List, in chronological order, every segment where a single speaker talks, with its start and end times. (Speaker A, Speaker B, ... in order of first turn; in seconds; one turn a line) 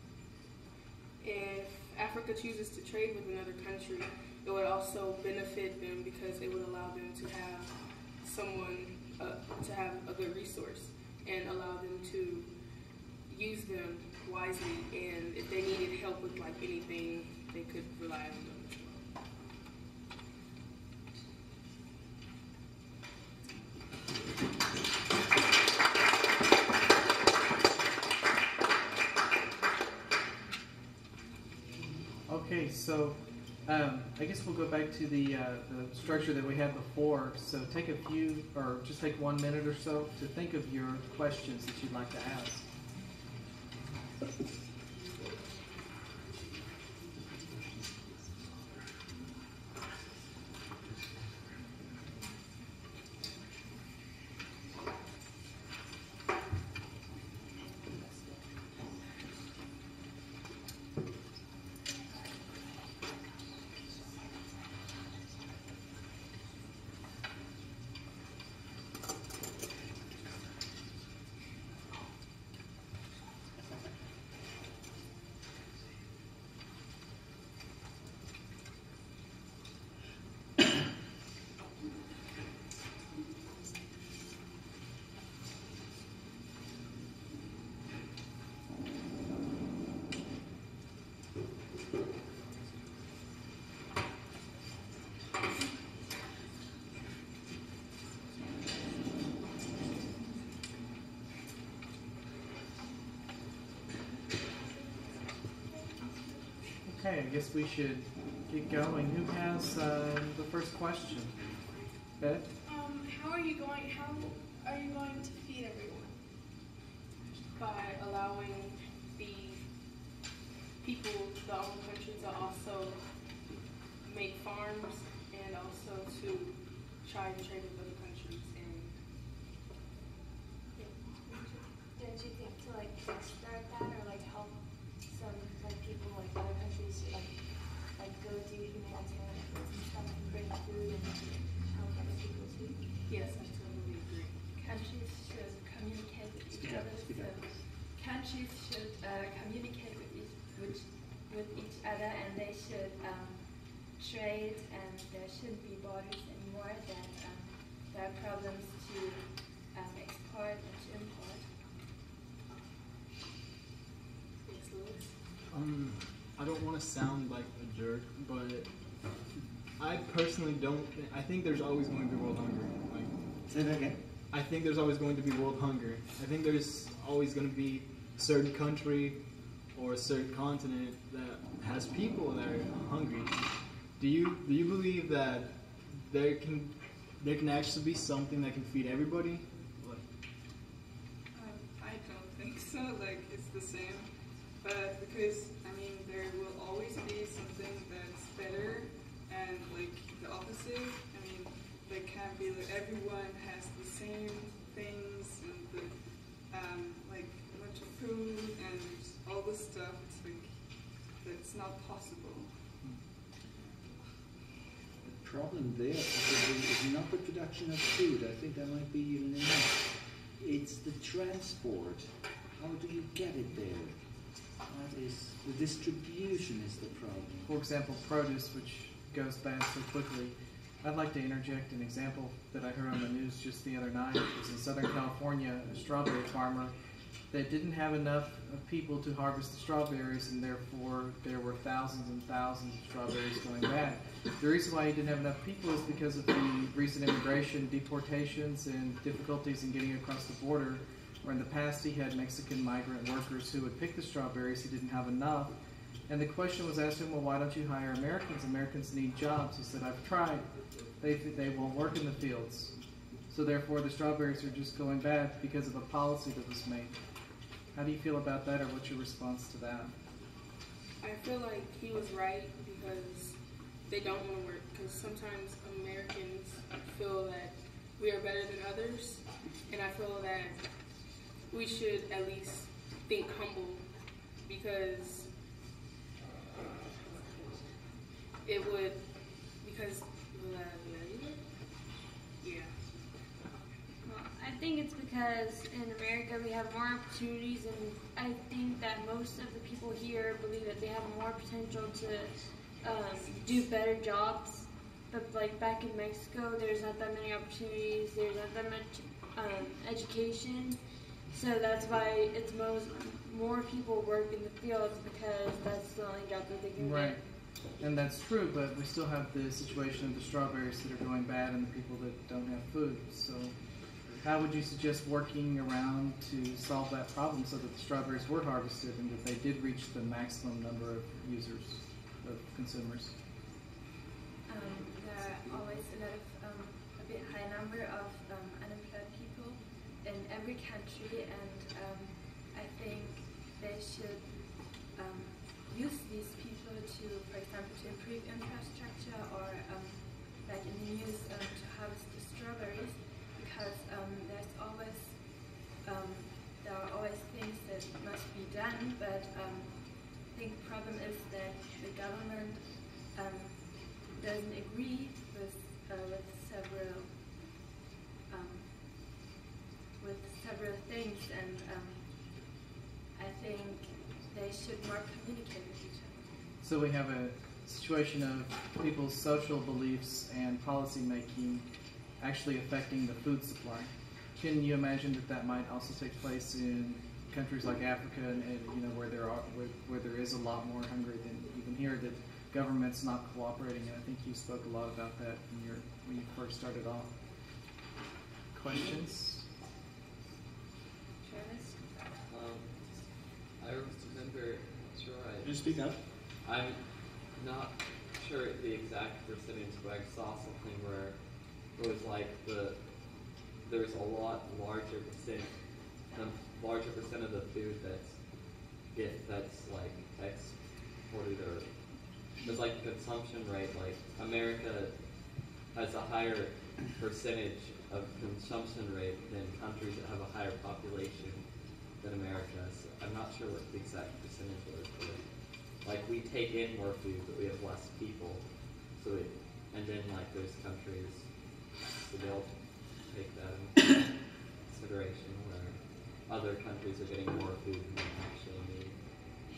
Speaker A: 1.2-12.5
Speaker A: 13.3-19.1
Speaker B: 32.3-42.7
Speaker B: 106.8-111.4
Speaker B: 112.2-112.5
Speaker C: 112.7-116.2
Speaker A: 117.5-119.7
Speaker A: 120.8-128.9
Speaker D: 130.8-142.9
Speaker A: 143.1-144.5
Speaker D: 144.5-161.6
Speaker E: 146.6-147.7
Speaker A: 164.4-165.1
Speaker F: 165.5-173.1
Speaker E: 173.5-174.1
Speaker F: 174.3-190.1
Speaker G: 191.3-212.5
Speaker E: 215.0-227.5
Speaker B: 227.4-236.7
Speaker B: 237.3-255.5
Speaker B: 256.1-260.5
Speaker B: 261.0-262.7
Speaker B: 263.3-267.0
Speaker B: 267.7-269.9
Speaker A: 271.0-280.6
Speaker A: 281.5-283.9
Speaker A: 284.4-285.3
Speaker A: 287.1-287.6
Speaker A: 288.4-289.0
Speaker A: 289.6-291.4
Speaker A: 292.4-292.8
Speaker H: 294.1-317.2
Speaker B: 316.8-317.2
Speaker B: 317.8-323.6
Speaker B: 324.2-333.2
Speaker D: 334.5-367.4
Speaker D: 368.3-369.2
Speaker D: 370.0-376.4
Speaker B: 376.6-381.7
Speaker B: 382.2-397.1
Speaker B: 398.5-399.4
Speaker I: 402.3-403.0
Speaker I: 403.6-405.7
Speaker F: 405.6-405.9
Speaker I: 406.4-411.2
Speaker I: 411.7-412.9
Speaker I: 413.6-415.5
Speaker I: 416.1-421.8
Speaker I: 422.4-425.0
Speaker I: 425.7-431.4
Speaker I: 432.0-441.3
Speaker I: 441.9-449.0